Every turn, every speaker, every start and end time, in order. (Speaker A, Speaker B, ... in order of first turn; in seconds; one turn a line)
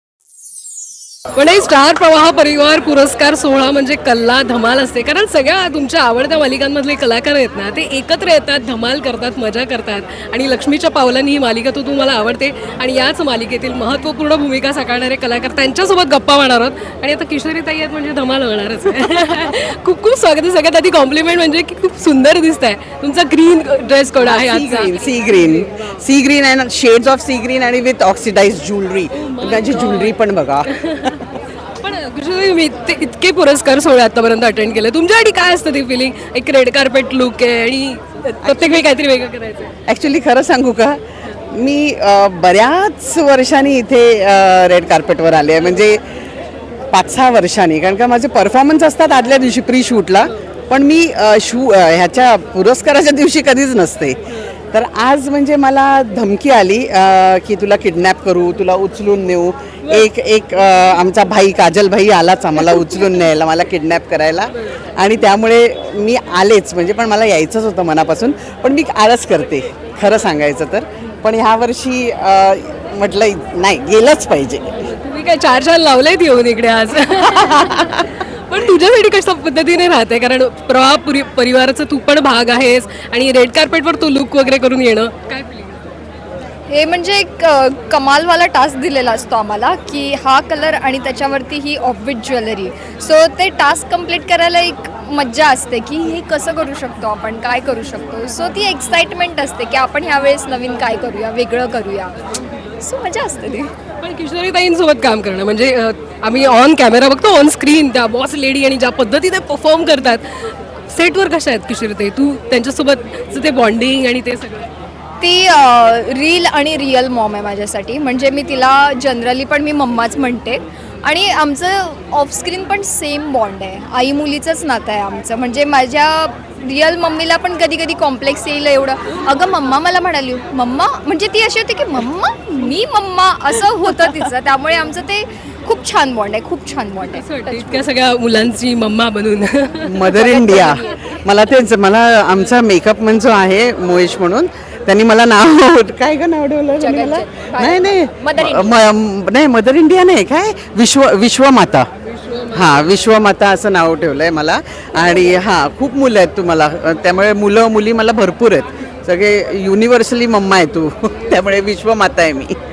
Speaker A: 1.3-25.8
Speaker B: 24.2-31.3
Speaker A: 29.1-39.7
Speaker B: 38.4-38.8
Speaker B: 39.9-46.0
Speaker B: 46.9-54.2
Speaker B: 54.7-74.9
Speaker A: 74.9-85.8
Speaker B: 77.2-78.1
Speaker C: 86.7-102.1
Speaker C: 102.8-103.7
Speaker A: 104.0-114.7
Speaker C: 115.2-137.8
Speaker A: 137.0-140.9
Speaker B: 139.8-151.9
Speaker C: 140.1-141.1
Speaker C: 146.8-148.8
Speaker A: 152.2-152.8
Speaker B: 152.5-162.6